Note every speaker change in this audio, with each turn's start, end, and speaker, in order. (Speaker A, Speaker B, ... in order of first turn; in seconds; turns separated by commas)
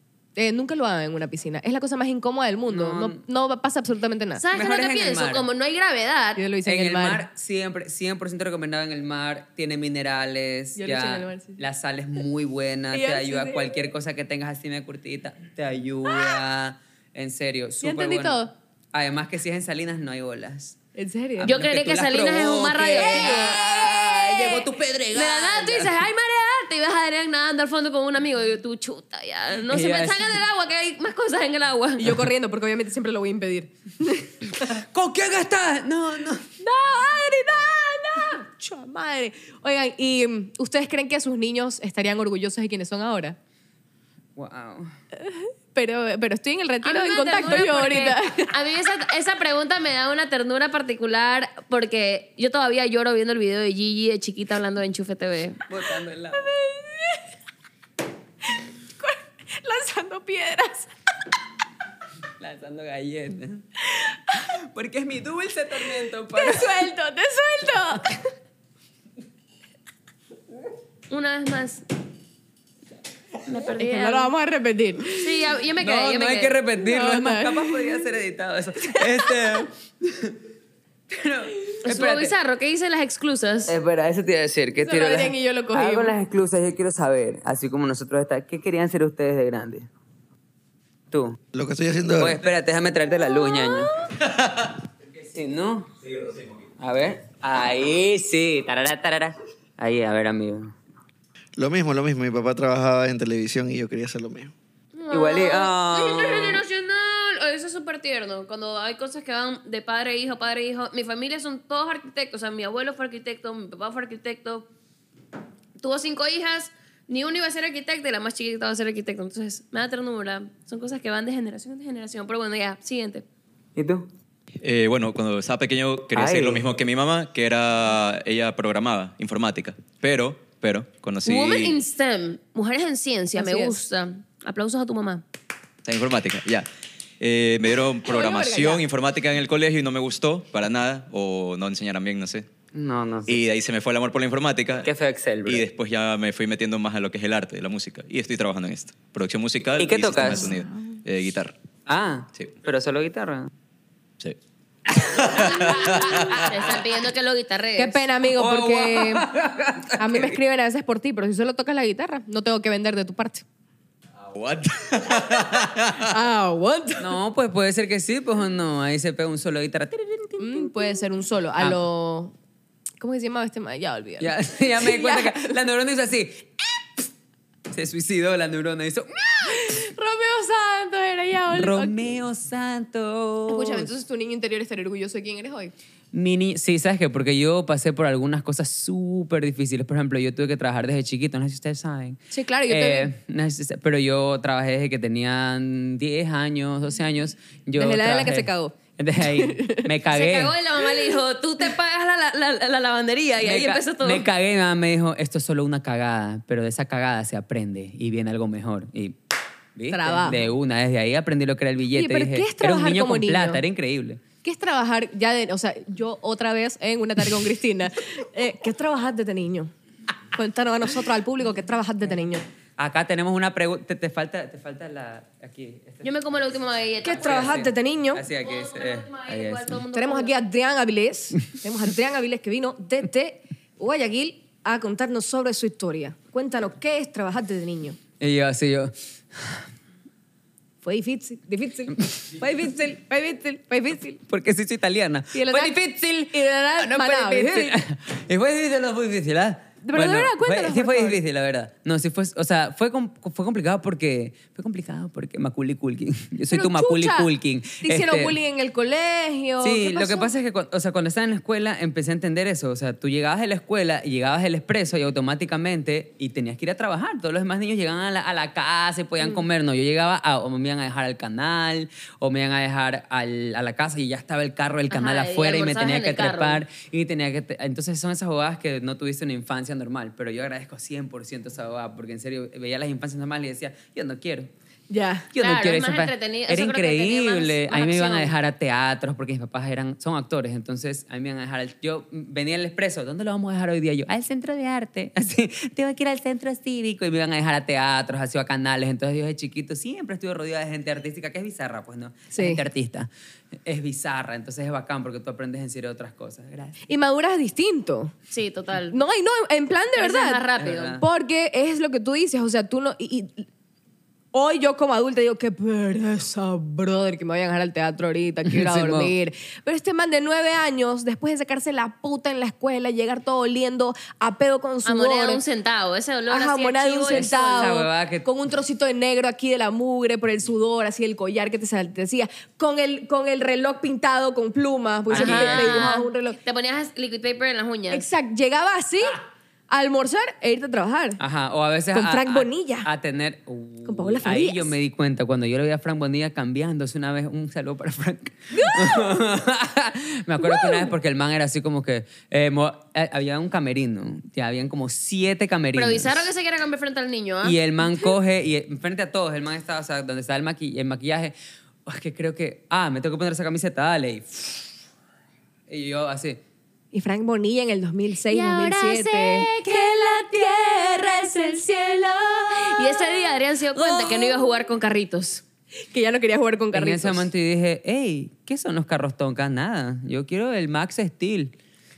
Speaker A: 0.4-4.4, Speaker B: 2.7-3.2, Speaker C: 4.4-6.4, Speaker B: 4.5-5.5, Speaker A: 6.4-7.2, Speaker B: 6.6-20.8, Speaker A: 10.8-11.6, Speaker A: 12.9-13.7, Speaker A: 17.8-18.5, Speaker A: 21.0-21.5, Speaker B: 21.4-26.0, Speaker C: 21.4-24.1, Speaker A: 23.0-24.4, Speaker C: 25.1-32.1, Speaker B: 29.7-30.4, Speaker A: 32.0-34.3, Speaker B: 34.6-36.5, Speaker A: 36.6-43.4, Speaker B: 44.4-44.9, Speaker A: 45.2-48.5, Speaker C: 46.8-55.6, Speaker B: 55.7-56.5, Speaker A: 56.4-57.2, Speaker A: 59.0-60.9, Speaker B: 62.4-63.6, Speaker A: 64.0-64.5, Speaker B: 64.6-66.9, Speaker A: 66.3-68.3, Speaker C: 71.1-71.8, Speaker C: 73.5-74.3, Speaker A: 73.8-75.2, Speaker C: 75.2-76.6, Speaker B: 75.8-80.4, Speaker A: 76.8-78.0, Speaker A: 78.9-79.4, Speaker B: 81.1-82.3, Speaker C: 81.8-83.8, Speaker B: 83.7-89.9, Speaker A: 84.8-86.2, Speaker B: 91.1-91.4, Speaker D: 91.5-92.4, Speaker B: 92.2-93.9, Speaker A: 93.4-93.8, Speaker B: 95.3-95.9, Speaker B: 96.8-100.8, Speaker D: 101.6-104.5, Speaker C: 105.0-114.7, Speaker B: 105.1-106.6, Speaker C: 115.8-123.2, Speaker B: 123.8-124.1, Speaker E: 124.6-131.8, Speaker B: 126.1-126.7, Speaker C: 131.2-135.2, Speaker A: 133.3-133.8, Speaker E: 135.8-136.7, Speaker E: 137.2-142.5, Speaker A: 138.1-138.8, Speaker B: 142.7-143.4, Speaker E: 143.3-144.9, Speaker B: 144.8-145.7, Speaker E: 145.4-151.5, Speaker B: 149.8-150.5, Speaker B: 151.9-153.5, Speaker E: 154.9-156.5, Speaker C: 155.3-158.0, Speaker B: 156.0-156.4, Speaker A: 157.8-159.3, Speaker B: 158.3-160.4, Speaker A: 160.0-163.4, Speaker E: 164.2-166.1, Speaker A: 166.1-167.1, Speaker B: 167.0-171.8, Speaker A: 170.4-172.3, Speaker A: 173.0-175.5, Speaker B: 174.2-177.0, Speaker B: 177.7-179.8, Speaker A: 179.5-182.1, Speaker B: 181.5-183.9, Speaker A: 183.5-185.7, Speaker B: 186.1-200.6, Speaker A: 192.3-193.1, Speaker A: 197.8-199.9, Speaker C: 200.1-204.3, Speaker B: 203.4-209.2, Speaker B: 209.8-214.2, Speaker A: 209.9-210.4, Speaker A: 211.9-213.6, Speaker A: 214.4-219.7, Speaker A: 220.3-222.4, Speaker B: 222.8-226.1, Speaker C: 226.0-227.6, Speaker A: 227.0-228.2, Speaker B: 227.1-229.8, Speaker C: 228.3-230.3, Speaker A: 229.9-238.0, Speaker B: 238.2-239.7, Speaker A: 240.8-244.2, Speaker B: 244.3-258.4, Speaker A: 245.3-247.8, Speaker A: 249.8-251.2, Speaker A: 256.5-260.3, Speaker B: 259.6-284.5, Speaker C: 274.9-276.6, Speaker A: 284.9-285.3, Speaker B: 285.3-306.8, Speaker C: 285.4-288.4, Speaker A: 302.3-302.6, Speaker A: 306.9-308.1, Speaker C: 308.3-309.0, Speaker A: 308.9-310.4, Speaker C: 310.0-311.0, Speaker B: 310.6-311.0, Speaker A: 311.0-313.5, Speaker A: 314.3-325.4, Speaker B: 318.5-319.1, Speaker C: 324.9-327.7, Speaker A: 326.3-336.4, Speaker B: 327.1-328.3, Speaker B: 335.1-335.9, Speaker C: 335.1-338.0, Speaker A: 337.9-341.2, Speaker B: 341.2-356.3, Speaker A: 341.9-342.9, Speaker A: 343.9-344.7, Speaker A: 348.5-349.1, Speaker A: 350.4-350.9, Speaker C: 355.8-357.6, Speaker B: 357.4-361.4, Speaker B: 361.9-364.7, Speaker B: 365.7-366.4, Speaker A: 366.9-369.9, Speaker C: 368.3-371.7, Speaker A: 370.4-374.6, Speaker C: 372.3-375.4, Speaker A: 375.9-377.3, Speaker B: 376.7-381.6